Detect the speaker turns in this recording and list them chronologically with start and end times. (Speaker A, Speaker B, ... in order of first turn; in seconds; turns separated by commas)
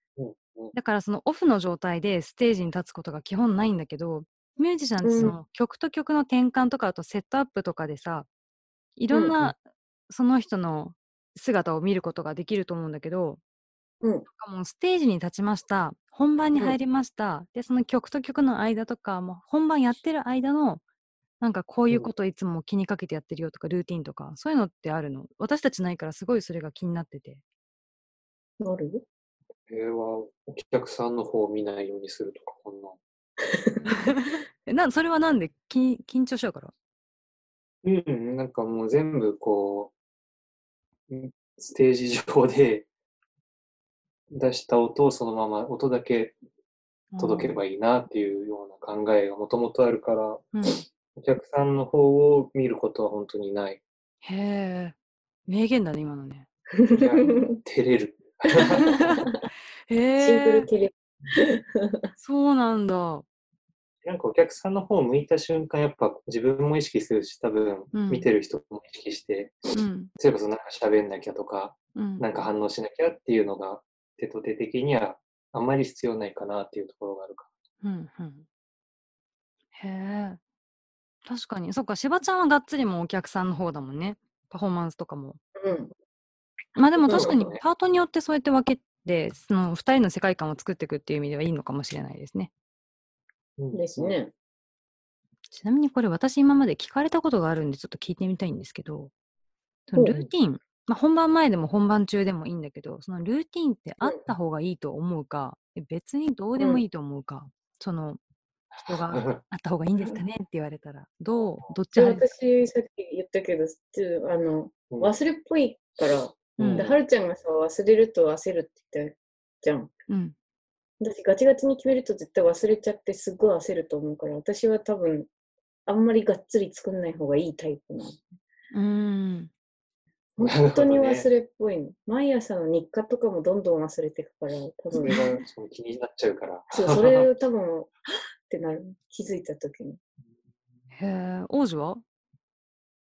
Speaker A: 0.2-0.7, Speaker B: 0.7-8.3, Speaker C: 5.0-5.4, Speaker B: 9.0-13.4, Speaker C: 9.1-9.4, Speaker B: 14.3-20.8, Speaker B: 21.4-27.4, Speaker C: 28.6-29.0, Speaker A: 29.7-33.0, Speaker C: 33.4-34.2, Speaker B: 33.9-36.7, Speaker A: 37.8-39.9, Speaker A: 41.1-42.9, Speaker A: 44.3-46.4, Speaker B: 47.1-47.6, Speaker A: 47.2-50.5, Speaker B: 50.5-50.9, Speaker A: 51.1-53.8, Speaker B: 54.2-55.0, Speaker B: 55.5-56.5, Speaker C: 56.7-57.6, Speaker A: 56.9-59.3, Speaker C: 58.5-59.3, Speaker B: 58.8-59.3, Speaker B: 59.9-60.7, Speaker C: 60.2-62.0, Speaker B: 62.2-63.2, Speaker A: 64.0-69.6, Speaker B: 67.9-68.3, Speaker B: 69.7-70.1, Speaker A: 70.2-77.5, Speaker B: 72.0-72.3, Speaker B: 77.8-78.5, Speaker B: 79.7-80.4, Speaker B: 81.2-85.4, Speaker C: 85.6-85.9, Speaker B: 86.8-92.5, Speaker C: 87.0-87.4, Speaker A: 87.2-87.6, Speaker A: 93.6-94.2, Speaker C: 93.7-94.3, Speaker B: 95.5-99.1, Speaker B: 99.9-108.2, Speaker C: 99.9-100.2, Speaker C: 104.0-104.3, Speaker C: 106.6-106.8, Speaker B: 108.8-112.3, Speaker A: 108.9-109.4, Speaker A: 111.3-111.7, Speaker C: 112.0-119.9, Speaker A: 116.6-117.0, Speaker B: 120.1-120.3, Speaker C: 121.0-125.3, Speaker C: 125.9-128.3, Speaker B: 128.7-129.5, Speaker C: 130.4-135.4, Speaker A: 130.4-131.3, Speaker A: 135.0-137.2, Speaker C: 136.7-137.9, Speaker C: 138.5-140.0, Speaker B: 140.9-142.0